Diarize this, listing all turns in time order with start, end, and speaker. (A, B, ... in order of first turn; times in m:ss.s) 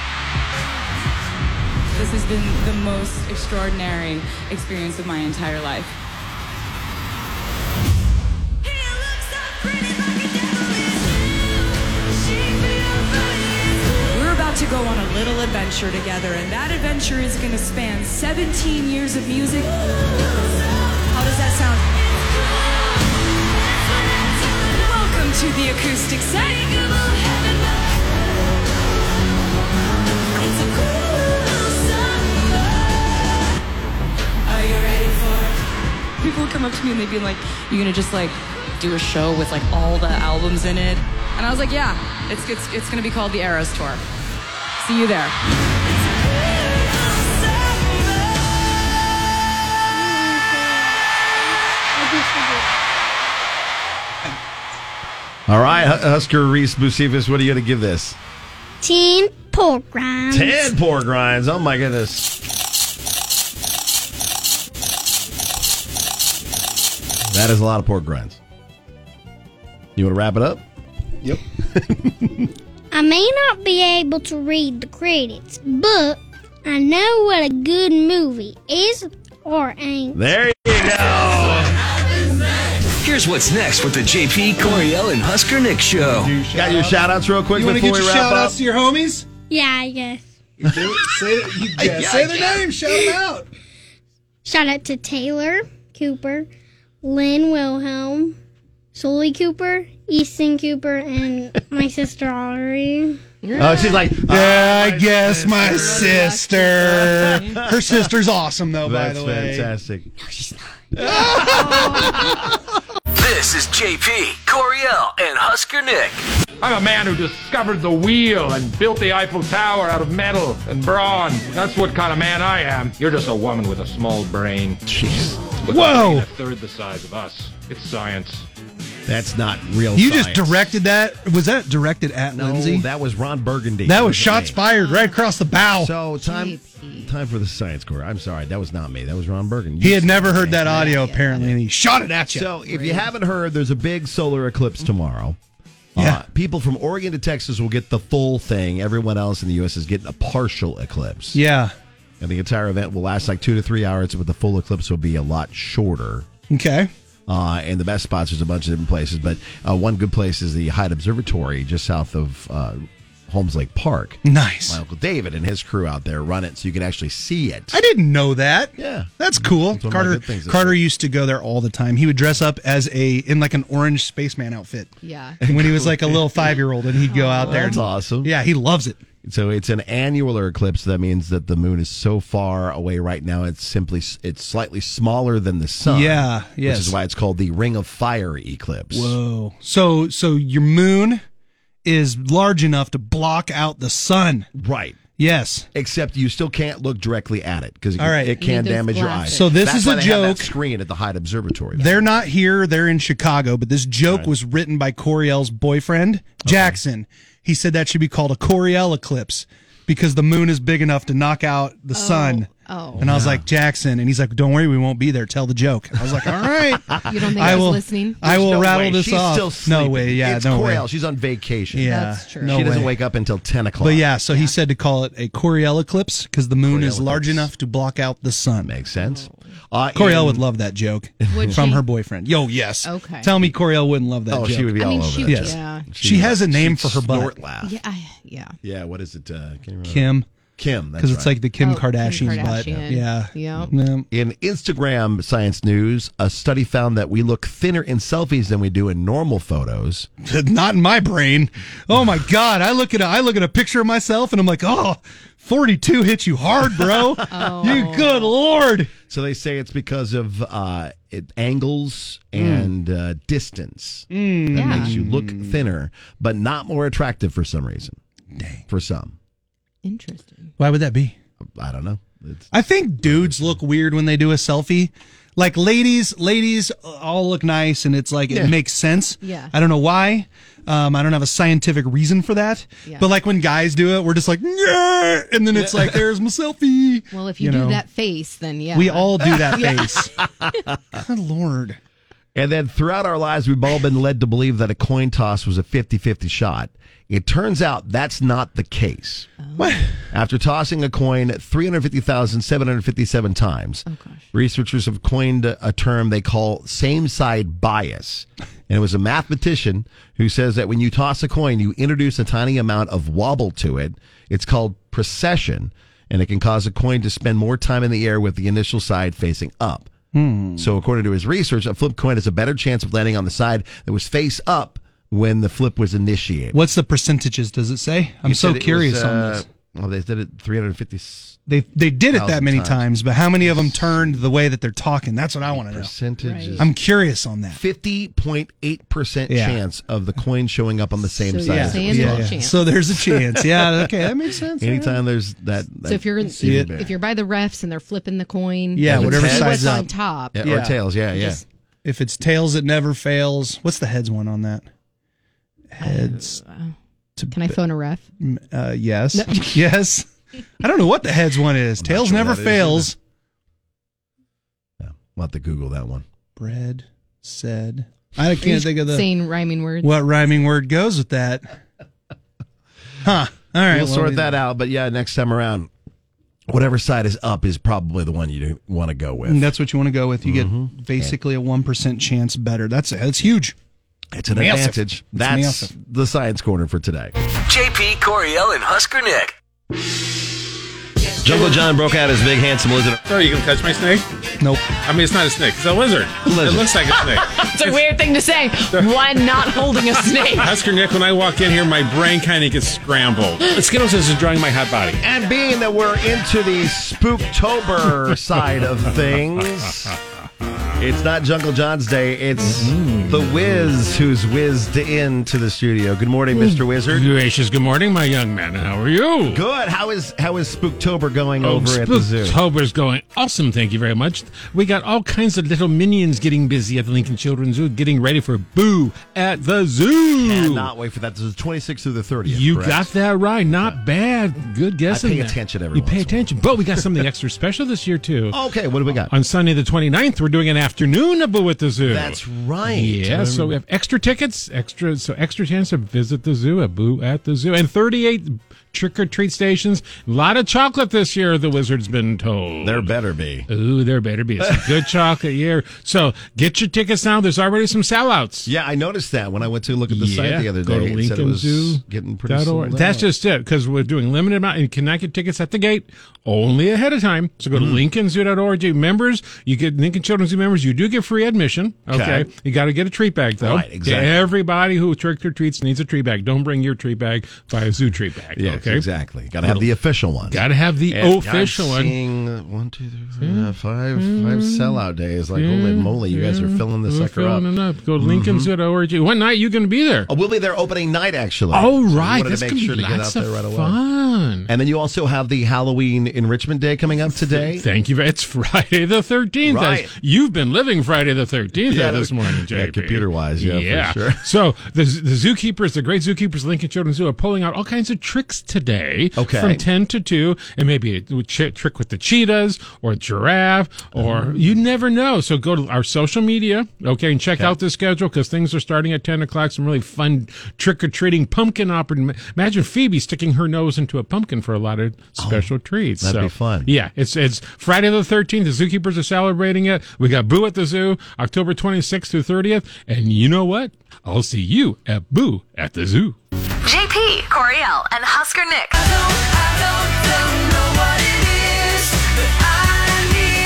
0:02.0-0:06.0 A
0:14.1-0:19.7 A
0:21.1-0:22.0 A
0:24.5-0:27.7 A
0:30.4-0:30.9 A
0:34.5-0:35.6 A
0:36.2-0:44.0 A
0:44.8-0:45.4 A
0:49.9-0:51.3 B
0:52.0-0:52.7 B
0:55.5-0:58.2 C
0:58.8-1:00.7 B
1:00.3-1:02.4 C
1:07.3-1:08.4 C
1:10.0-1:10.6 C
1:12.9-1:20.3 B
1:20.1-1:21.7 C
1:23.0-1:26.4 D
1:26.2-1:29.3 E
1:26.5-1:28.6 C
1:29.5-1:30.2 B
1:30.6-1:33.1 C
1:30.6-1:33.5 E
1:34.4-1:36.5 B
1:37.0-1:38.4 B
1:38.9-1:43.2 B
1:43.4-1:44.0 F
1:43.6-1:45.9 C
1:44.2-1:49.7 E
1:45.1-1:47.6 F
1:46.9-1:48.1 C
1:48.8-1:50.1 C
1:50.2-1:50.6 B
1:50.9-1:52.4 C
1:51.1-1:52.0 E
1:53.1-1:56.2 D
1:56.6-2:04.8 G
2:04.9-2:05.5 C
2:05.6-2:08.5 G
2:05.7-2:06.3 E
2:09.1-2:10.7 C
2:10.0-2:12.9 E
2:12.3-2:14.6 C
2:13.9-2:15.9 E
2:14.6-2:15.2 F
2:15.6-2:21.6 C
2:16.2-2:17.2 F
2:19.8-2:22.5 E
2:20.7-2:21.5 F
2:22.3-2:25.4 C
2:22.7-2:23.1 F
2:26.0-2:31.4 C
2:26.0-2:26.2 E
2:31.3-2:31.7 E
2:32.2-2:36.3 C
2:36.5-2:36.9 E
2:37.3-2:47.8 C
2:44.2-2:44.8 E
2:47.7-2:54.9 E
2:48.8-2:50.8 C
2:55.0-2:55.4 F
2:55.4-2:56.6 C
2:55.4-2:59.0 E
2:57.1-2:57.8 F
2:57.4-2:58.4 C
2:59.2-3:09.2 C
3:05.8-3:07.0 E
3:08.9-3:11.2 E
3:11.8-3:14.5 E
3:14.6-3:15.0 C
3:15.2-3:15.7 E
3:15.7-3:22.0 C
3:18.0-3:18.4 E
3:18.4-3:19.6 F
3:19.3-3:20.5 E
3:21.8-3:32.5 E
3:24.0-3:24.3 C
3:26.4-3:26.8 C
3:31.9-3:33.1 F
3:33.0-3:33.5 C
3:33.0-3:40.8 E
3:36.1-3:37.7 C
3:37.0-3:38.2 F
3:38.2-3:44.1 C
3:41.7-3:42.9 E
3:41.8-3:42.6 F
3:43.8-3:48.7 E
3:46.6-3:47.5 C
3:48.6-3:50.5 C
3:49.0-3:49.4 F
3:50.0-3:57.3 E
3:51.3-3:51.6 C
3:51.3-3:51.8 F
3:52.8-3:53.3 F
3:54.3-3:57.7 C
3:54.8-3:55.9 F
3:57.6-3:58.6 F
3:58.6-4:01.4 C
3:59.9-4:00.3 E
4:01.0-4:04.1 E
4:01.6-4:03.7 F
4:02.0-4:02.9 C
4:03.6-4:10.1 C
4:10.2-4:18.9 E
4:16.9-4:18.0 C
4:17.3-4:18.3 F
4:19.0-4:28.0 C
4:22.4-4:22.7 E
4:24.1-4:25.6 E
4:24.5-4:25.0 F
4:28.4-4:28.6 E
4:28.7-4:29.2 C
4:29.8-4:30.5 F
4:30.6-4:31.2 E
4:31.4-4:33.6 C
4:32.5-4:47.8 E
4:38.3-4:38.6 C
4:39.2-4:39.5 F
4:45.5-4:46.1 C
4:47.1-4:50.1 F
4:48.7-4:50.1 E
4:49.3-4:49.7 C
4:50.4-4:51.0 C
4:50.9-4:51.8 E
4:52.4-5:19.9 C
4:59.4-4:59.8 F
5:03.9-5:04.2 F
5:20.1-5:20.7 E
5:20.6-5:26.6 C
5:26.5-5:29.4 E
5:28.2-5:31.4 C
5:31.5-5:35.9 E
5:32.1-5:34.2 C
5:35.5-5:36.8 C
5:36.2-5:36.6 F
5:36.6-5:37.6 E
5:37.5-5:42.4 C
5:39.3-5:39.6 E
5:41.2-5:42.7 F
5:41.5-5:44.9 E
5:43.0-5:44.0 C
5:44.6-5:46.9 C
5:45.8-5:50.4 F
5:46.4-5:46.7 E
5:48.8-5:50.8 E
5:48.8-5:51.4 C
5:51.1-5:51.4 F
5:51.8-5:54.7 E
5:55.7-5:56.4 E
5:55.8-5:56.7 F
5:57.2-5:57.6 E
5:57.3-5:58.1 F
5:58.2-6:00.1 E
5:59.1-5:59.6 F
6:00.6-6:03.0 E
6:01.8-6:02.9 C
6:04.8-6:06.0 C
6:06.4-6:09.1 E
6:08.4-6:09.9 F
6:09.8-6:11.6 E
6:13.0-6:14.4 E
6:13.7-6:15.7 C
6:16.5-6:19.5 C
6:19.3-6:23.6 E
6:20.2-6:21.2 C
6:24.1-6:27.1 C
6:24.3-6:25.7 E
6:27.5-6:29.3 D
6:31.2-6:33.0 C
6:33.1-6:34.1 H
6:34.4-6:34.7 E
6:34.8-6:38.0 H
6:36.3-6:36.8 C
6:37.6-6:37.9 F
6:37.6-6:40.4 I
6:38.7-6:45.0 H
6:39.1-6:40.4 F
6:45.0-6:50.0 C
6:50.8-6:57.1 C
6:52.4-6:53.7 H
6:56.4-6:59.4 H
6:59.3-7:02.4 C
7:01.4-7:10.7 H
7:10.1-7:12.9 C
7:12.3-7:18.4 H
7:13.5-7:13.8 C
7:14.9-7:17.0 C
7:18.3-7:19.1 C
7:18.9-7:32.9 H
7:21.8-7:23.6 C
7:32.6-7:33.5 C
7:33.5-7:38.5 H
7:34.4-7:34.9 C
7:38.5-7:43.1 C
7:39.9-7:58.8 H
7:47.5-7:47.8 C
7:51.9-7:52.3 C
7:53.4-7:54.3 C
7:58.3-8:08.5 C
7:59.4-7:59.7 H
8:00.2-8:02.0 H
8:03.2-8:04.8 H
8:05.4-8:10.1 H
8:10.1-8:13.8 C
8:11.5-8:14.5 H
8:14.5-8:17.7 C
8:17.2-8:56.2 H
8:19.4-8:19.9 C
8:21.6-8:24.2 C
8:29.2-8:29.7 C
8:34.0-8:34.6 C
8:45.2-8:46.8 C
8:56.6-8:58.8 J